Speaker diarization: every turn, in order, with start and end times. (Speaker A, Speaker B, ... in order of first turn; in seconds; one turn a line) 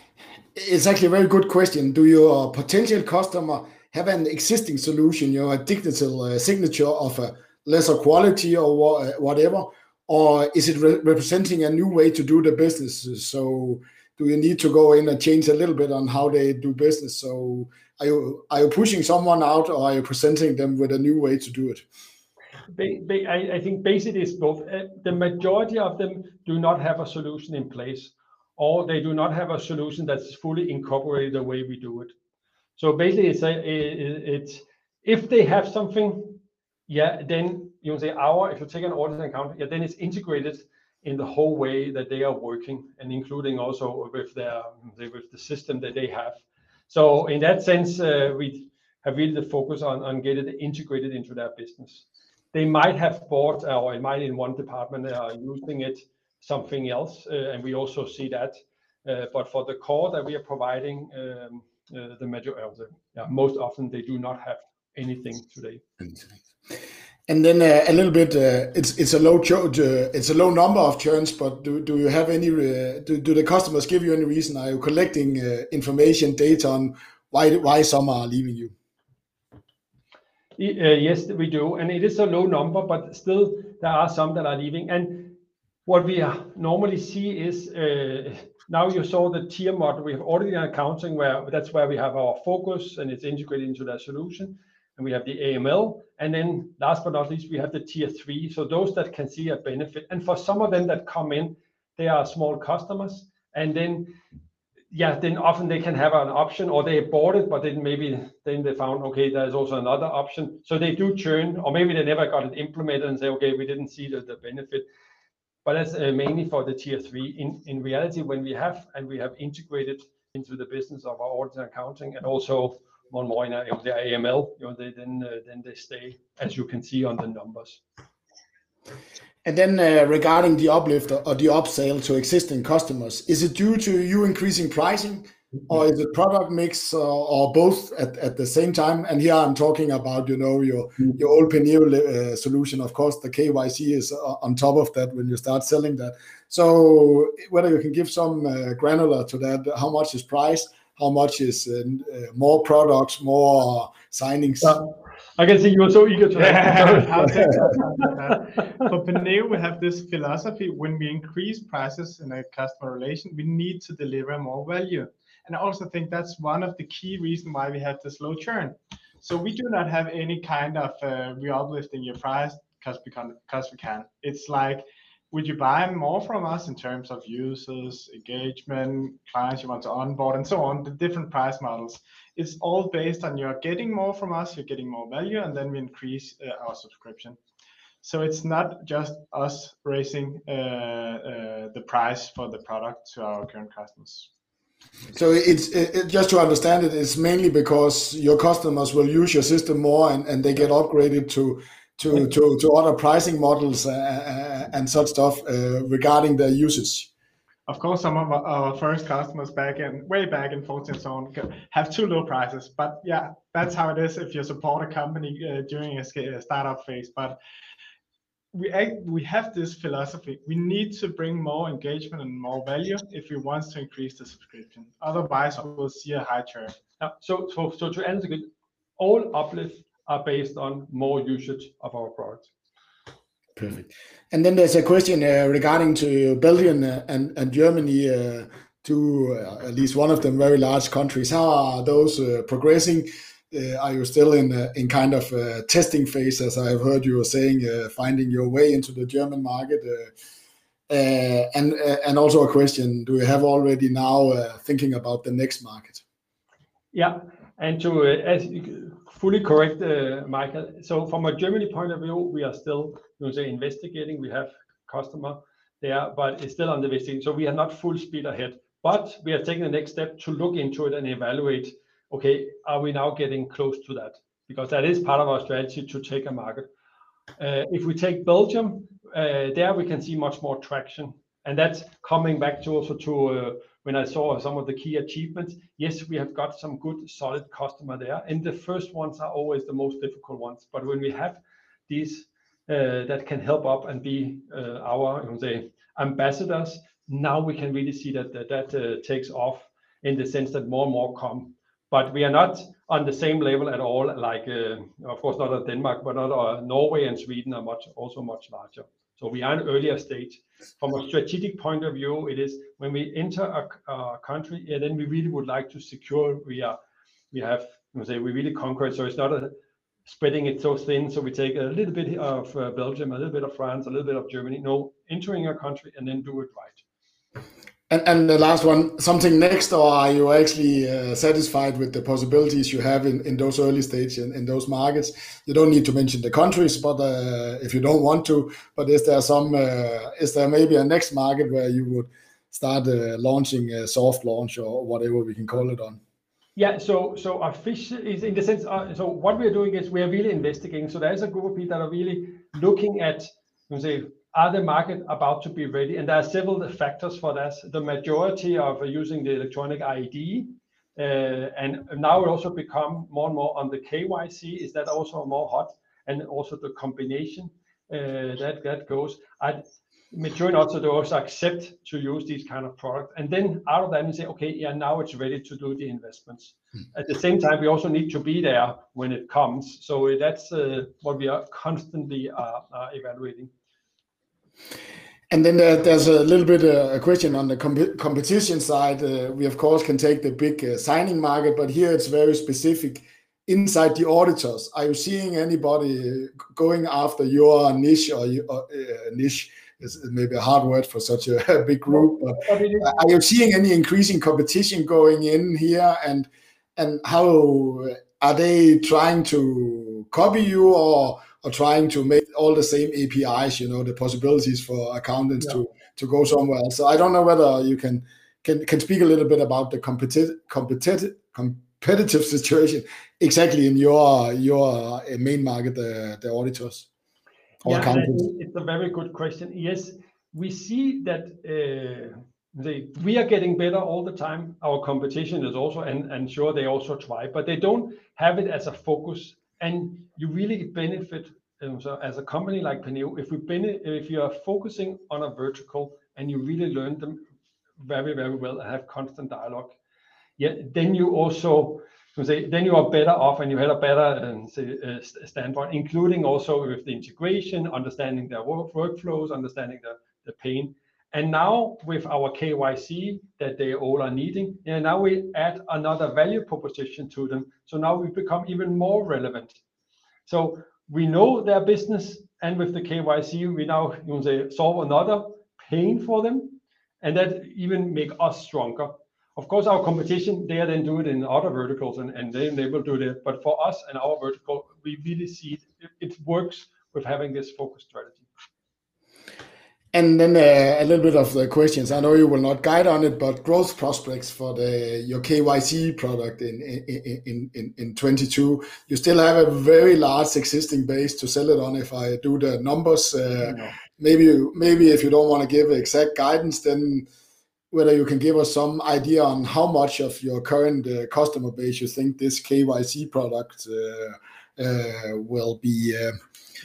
Speaker A: 0.6-21.8
Speaker B: 22.7-32.1
Speaker B: 32.8-65.8
Speaker A: 67.3-78.7
Speaker B: 80.6-104.2
Speaker B: 104.9-114.9
Speaker B: 115.7-127.8
Speaker A: 129.4-154.8
Speaker B: 154.6-157.8
Speaker C: 156.3-187.4
Speaker C: 188.0-194.3
Speaker A: 195.1-207.1
Speaker C: 207.7-217.4
Speaker C: 218.5-226.8
Speaker B: 227.0-232.5
Speaker A: 233.6-250.1
Speaker A: 250.9-256.0
Speaker B: 256.9-276.7
Speaker B: 277.4-316.8
Speaker B: 317.3-319.6
Speaker B: 320.1-326.8
Speaker A: 327.9-346.0
Speaker B: 346.6-383.5
Speaker A: 385.3-426.9
Speaker B: 401.9-403.0
Speaker A: 427.6-428.3
Speaker B: 427.6-447.2
Speaker B: 447.8-449.8
Speaker B: 450.4-469.6
Speaker B: 470.3-488.3
Speaker A: 489.9-507.1
Speaker B: 503.4-503.8
Speaker A: 507.7-516.1